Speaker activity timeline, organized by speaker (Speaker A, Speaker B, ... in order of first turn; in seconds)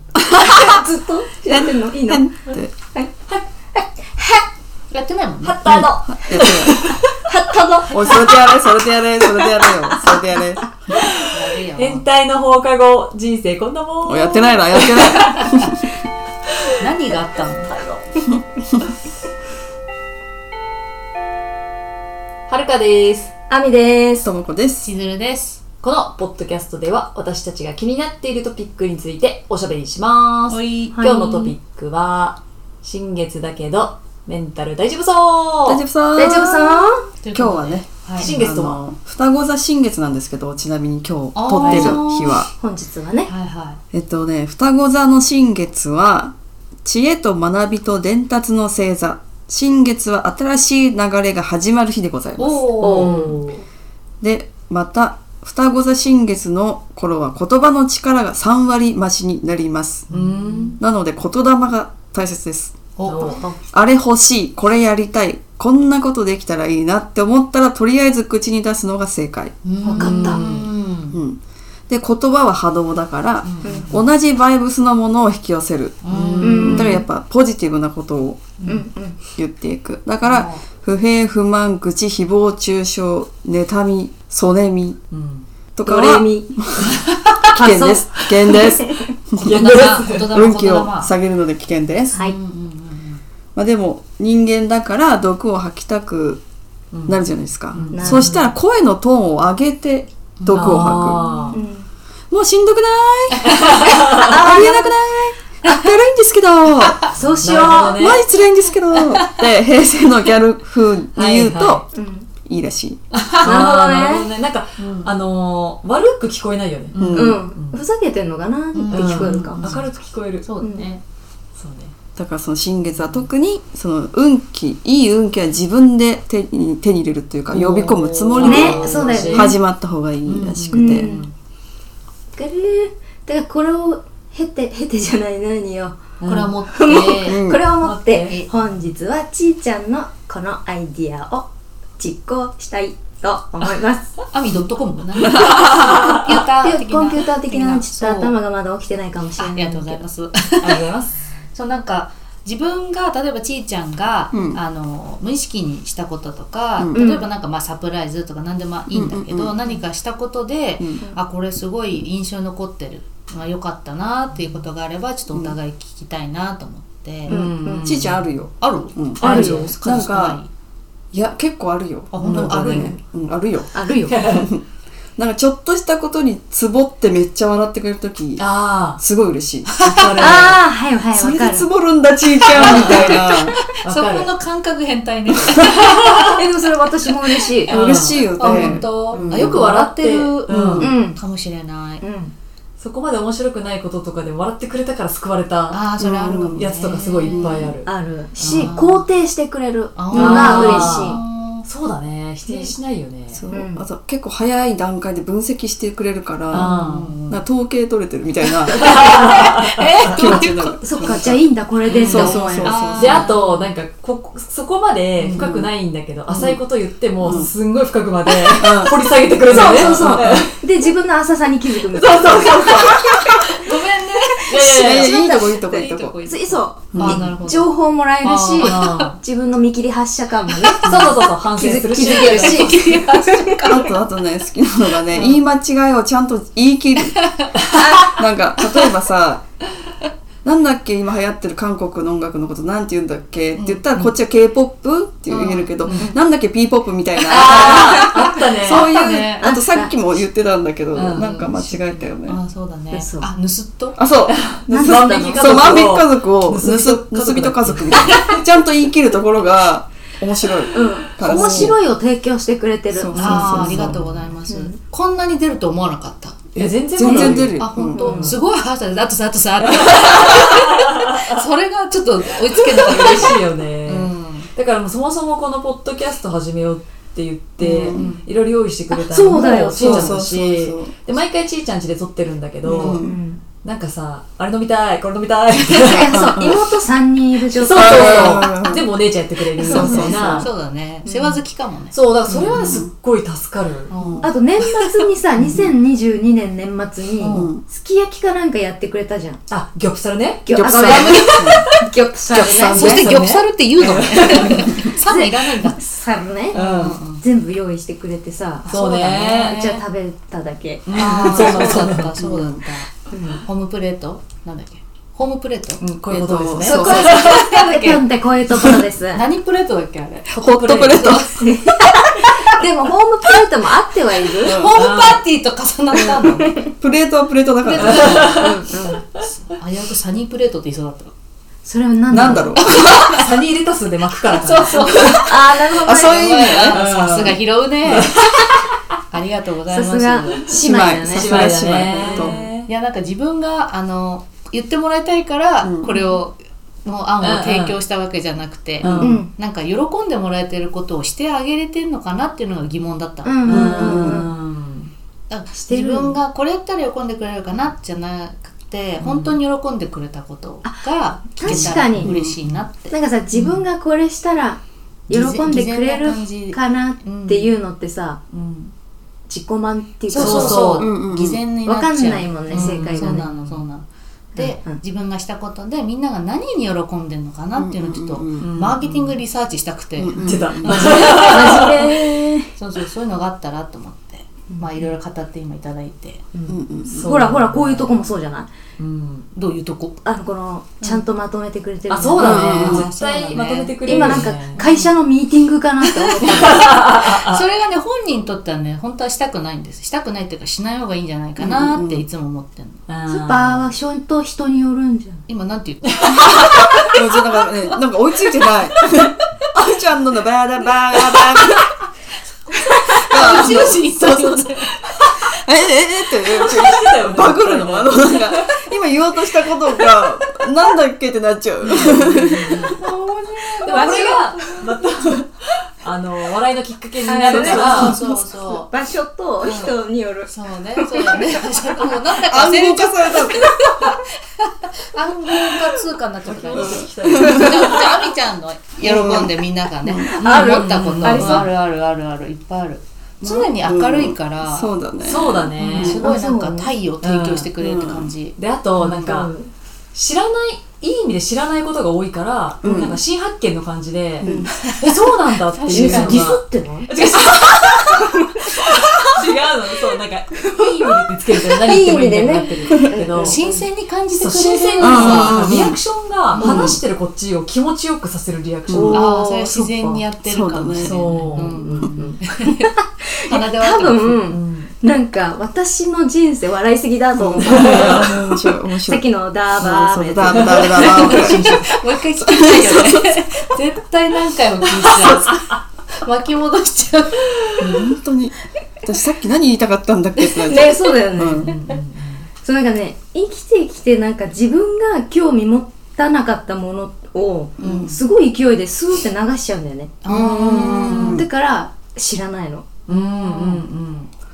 Speaker A: 0.2-2.3, 3.8-4.4, 23.5-24.3, 30.9-31.5, 36.2-37.0, 42.6-43.3, 52.8-53.5, 69.8-70.4, 73.7-73.9, 76.4-77.0, 78.7-79.2, 85.8-86.5, 87.5-89.1, 97.9-98.3, 101.5-101.9, 104.1-105.3, 107.0-108.0, 111.9-112.3, 113.4-114.3, 117.1-119.6, 120.6-120.9, 128.4-129.5, 130.7-131.3, 132.3-136.0, 136.7-141.5, 142.0-144.2, 146.6-150.0, 156.9-157.3, 167.3-167.9, 169.2-169.5, 173.7-174.3, 180.2-181.7, 182.6-183.2, 186.2-187.9, 190.8-191.2, 192.0-192.3, 197.8-201.2, 203.5-203.8, 210.8-212.9, 219.5-223.6, 224.4-225.6, 226.2-233.8, 237.7-238.2, 245.9-246.2, 249.4-249.9, 252.9-253.3, 254.7-255.8, 260.7-264.0, 264.5-264.7, 267.0-267.5, 268.0-268.3, 278.9-280.1, 282.8-283.4, 285.7-288.6, 289.6-290.4, 291.1-291.4, 292.3-292.7, 294.2-299.4, 300.4-303.1, 304.8-306.6, 307.2-308.7, 309.4-311.7, 313.1-313.4, 316.6-319.2, 321.4-324.6, 325.9-326.7, 327.8-329.0, 331.6-332.6, 335.0-336.6, 339.7-341.4, 349.0-349.3, 353.2-354.3, 355.6-356.1, 361.4-362.2, 362.9-368.2, 369.3-370.7, 371.6-373.3, 374.4-374.8, 380.6-382.5, 387.0-388.5, 390.1-392.8, 393.8-396.8, 403.1-405.2, 422.7-424.6, 427.0-432.0, 440.1-441.5, 445.8-446.7, 448.8-449.5, 454.2-454.7, 455.7-457.0, 457.9-458.8, 460.4-463.6, 468.7-469.1, 472.6-478.2, 478.8-481.3, 490.3-491.8, 492.4-503.3
Speaker B: 1.4-2.7, 5.7-7.0, 7.9-10.7, 14.1-15.8, 24.2-24.9, 35.7-42.5, 43.9-52.7, 54.2-60.1, 60.8-62.8, 63.7-69.6, 71.1-78.5, 79.3-85.0, 85.8-92.2, 93.5-96.4, 97.1-101.2, 102.3-111.8, 112.5-113.0, 117.0-117.4, 122.2-131.1, 137.2-137.7, 154.3-154.6, 158.9-159.5, 167.8-170.4, 171.1-174.6, 175.2-180.5, 181.1-183.6, 187.7-189.7, 190.5-190.9, 196.0-196.7, 203.3-206.7, 207.3-209.2, 210.0-213.3, 215.3-215.7, 217.2-217.5, 218.5-220.4, 224.6-226.2, 226.9-227.2, 233.6-237.2, 238.0-239.4, 240.4-252.4, 254.0-261.8, 262.9-264.0, 266.6-268.3, 277.6-278.1, 279.3-280.9, 282.6-283.2, 286.1-286.6, 287.7-288.9, 289.6-290.4, 292.6-292.9, 293.9-294.3, 297.3-297.6, 300.5-301.6, 302.3-303.2, 304.5-304.9, 311.3-312.6, 316.1-317.2, 320.3-321.6, 324.4-324.8, 326.8-328.5, 332.1-332.9, 335.8-337.0, 340.6-342.4, 345.6-346.1, 353.5-354.2, 370.7-371.4, 377.6-378.5, 380.0-381.1, 386.5-387.1, 392.2-392.9, 401.4-402.1, 406.9-411.7, 413.0-414.6, 415.2-422.8, 427.3-427.9, 432.1-433.5, 436.5-437.8, 438.8-440.1, 443.2-446.0, 447.6-448.1, 452.6-453.0, 454.2-454.5, 455.8-456.2, 464.8-465.8, 466.4-466.8, 468.7-469.0, 470.2-471.9, 477.2-481.5, 482.1-483.2, 487.6-491.6, 497.6-497.9, 500.1-501.3
Speaker C: 4.9-5.8, 7.9-8.3, 11.2-12.0, 15.1-15.4, 16.8-17.7, 24.8-25.6, 30.5-31.0, 37.2-38.3, 41.3-42.5, 43.2-43.8, 52.4-53.4, 60.1-60.8, 63.0-63.4, 69.7-71.2, 73.5-73.9, 76.0-77.0, 78.6-78.8, 80.2-80.6, 89.5-91.2, 92.1-93.2, 100.4-101.6, 103.3-104.0, 109.1-109.4, 117.0-117.3, 118.7-119.8, 120.4-121.0, 128.3-129.4, 136.2-137.4, 144.3-148.3, 149.4-150.9, 151.5-168.0, 168.6-170.5, 172.1-173.0, 179.8-180.4, 182.5-186.1, 188.4-192.0, 195.7-197.7, 198.4-199.1, 199.9-201.6, 206.5-207.4, 208.7-211.1, 212.0-213.7, 215.2-215.5, 219.6-220.2, 223.6-229.1, 232.1-233.8, 235.1-235.4, 237.0-237.5, 243.5-244.1, 245.3-246.1, 247.4-249.5, 251.5-254.0, 261.3-261.7, 263.1-266.5, 267.6-274.5, 277.9-278.2, 289.7-292.5, 293.9-294.9, 297.2-297.5, 302.7-305.8, 306.5-307.2, 308.6-309.8, 310.9-312.9, 313.4-315.8, 316.8-318.1, 318.6-321.5, 324.4-326.6, 327.7-328.5, 329.1-331.1, 332.6-333.3, 334.2-338.2, 339.1-340.6, 342.1-354.2, 355.3-363.6, 365.1-367.5, 368.3-368.7, 370.1-380.9, 382.6-386.3, 389.3-390.0, 392.1-394.9, 396.5-402.8, 405.3-406.4, 412.5-414.7, 427.3-428.7, 429.4-448.4, 455.5-456.3, 463.1-465.6, 468.9-472.7, 473.3-474.2, 480.8-487.5, 497.6-498.0, 500.0-501.2
Speaker D: 5.4-8.5, 9.4-9.6, 10.9-15.4, 17.7-18.1, 22.5-23.3, 25.8-35.8, 38.2-38.8, 41.5-42.0, 52.8-53.6, 60.1-60.8, 63.0-63.6, 69.8-70.7, 76.1-76.9, 85.1-85.5, 89.4-90.3, 96.9-97.2, 97.7-98.5, 100.5-101.6, 103.4-104.5, 107.4-108.2, 111.1-111.8, 113.3-117.8, 118.9-120.5, 121.6-121.9, 127.5-129.6, 130.2-131.3, 136.2-137.0, 137.8-138.4, 145.3-146.4, 150.6-151.2, 167.3-168.1, 169.2-169.7, 172.2-172.9, 174.1-174.5, 178.4-179.0, 179.8-180.6, 182.6-183.2, 183.8-184.3, 185.7-186.4, 187.7-190.9, 192.8-195.9, 196.5-197.9, 200.1-203.4, 206.5-207.1, 208.8-210.4, 211.9-220.6, 221.9-223.6, 224.5-225.1, 226.9-227.3, 228.6-229.2, 230.8-232.8, 247.3-248.9, 250.9-251.7, 254.3-258.4, 263.7-264.0, 266.6-268.4, 269.6-271.3, 272.8-283.0, 283.6-286.2, 287.6-290.5, 291.9-293.9, 299.5-304.8, 306.5-307.0, 308.7-309.6, 310.9-312.1, 315.8-317.4, 320.3-321.1, 324.8-325.2, 327.8-328.6, 332.8-335.4, 336.7-338.7, 341.1-342.7, 347.2-347.8, 348.8-349.2, 353.4-354.9, 359.0-359.4, 361.5-362.6, 370.1-370.9, 372.5-373.6, 378.4-379.1, 380.2-382.0, 386.9-388.0, 388.8-389.3, 391.9-394.6, 396.2-397.4, 402.9-403.7, 405.9-406.9, 416.4-418.6, 421.8-422.8, 423.6-425.3, 425.8-428.0, 436.2-437.9, 440.3-441.5, 445.0-446.1, 447.0-447.5, 448.4-449.3, 449.9-463.4, 464.1-470.0, 470.8-472.1, 474.3-474.7, 477.4-478.2, 480.3-481.8, 485.1-485.4, 491.3-492.3, 502.9-504.1